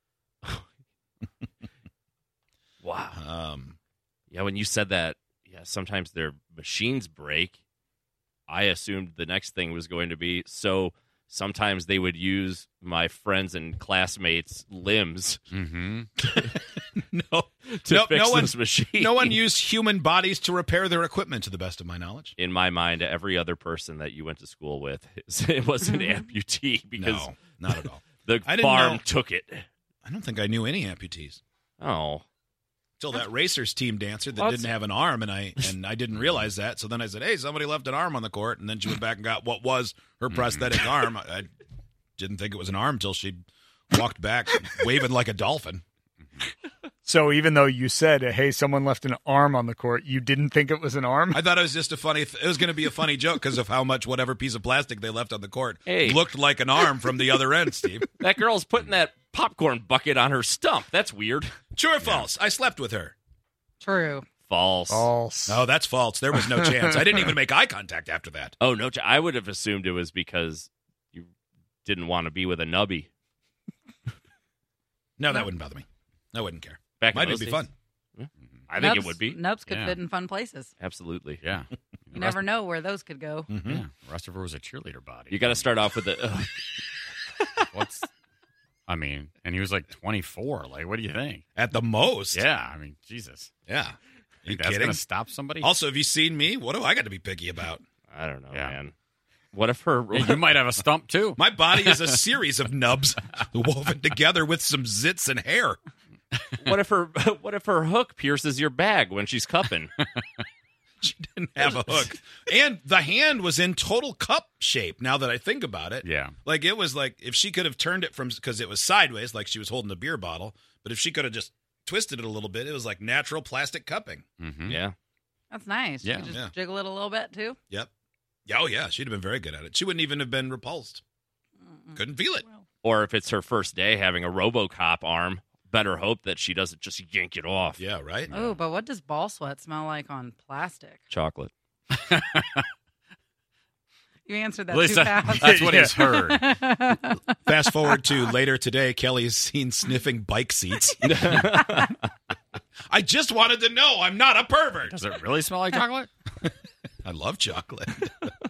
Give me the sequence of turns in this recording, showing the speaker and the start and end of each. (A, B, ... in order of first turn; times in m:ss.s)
0:02.8-0:03.2 A
0:03.1-0:03.8 B
0:04.3-0:07.6 A
0:08.5-0:15.4 A
0:15.5-0:16.1 C
0:16.2-0:22.3 B
0:17.7-0:19.4 A
0:22.4-0:27.7 A
0:27.0-0:29.0 B
0:28.2-0:29.6 A
0:30.0-0:31.4 B
0:31.8-0:32.2 A
0:33.0-0:41.5 B
0:34.4-0:34.7 A
0:40.3-0:40.6 C
0:42.2-0:45.8 B
0:47.0-0:51.4 D
0:51.3-0:58.0 B
0:55.9-0:56.2 A
0:58.2-1:02.3 A
1:01.7-1:03.1 B
1:03.8-1:04.3 E
1:04.4-1:05.1 A
1:04.9-1:05.6 D
1:05.5-1:08.5 B
1:06.3-1:07.2 D
1:08.6-1:11.3 A
1:11.8-1:13.1 A
1:15.2-1:17.7 B
1:17.0-1:19.4 A
1:18.7-1:20.7 E
1:19.7-1:20.0 C
1:20.8-1:21.4 A
1:21.4-1:22.4 C
1:22.1-1:23.6 E
1:23.5-1:23.8 B
1:23.6-1:25.7 C
1:25.3-1:26.7 A
1:27.7-1:28.1 C
1:28.9-1:31.4 C
1:31.5-1:32.4 B
1:32.3-1:33.5 C
1:33.7-1:35.0 B
1:34.4-1:35.7 C
1:35.6-1:37.8 B
1:38.1-1:38.9 A
1:38.5-1:38.8 C
1:39.5-1:40.5 A
1:40.1-1:42.2 C
1:41.4-1:45.8 B
1:46.6-1:49.9 A
1:51.0-2:04.2 B
1:51.6-1:51.9 A
1:56.0-1:56.3 C
2:04.4-2:04.8 C
2:04.7-2:04.9 A
2:05.5-2:07.6 E
2:06.0-2:06.4 C
2:08.5-2:11.0 B
2:11.7-2:12.0 E
2:12.0-2:12.4 B
2:12.8-2:17.8 A
2:17.8-2:18.4 B
2:18.3-2:21.1 E
2:21.1-2:21.5 A
2:21.9-2:22.6 C
2:24.2-2:27.2 E
2:24.7-2:26.5 C
2:25.5-2:25.9 D
2:27.4-2:31.4 B
2:31.0-2:32.0 A
2:32.9-2:35.0 B
2:34.8-2:36.1 C
2:37.0-2:38.3 B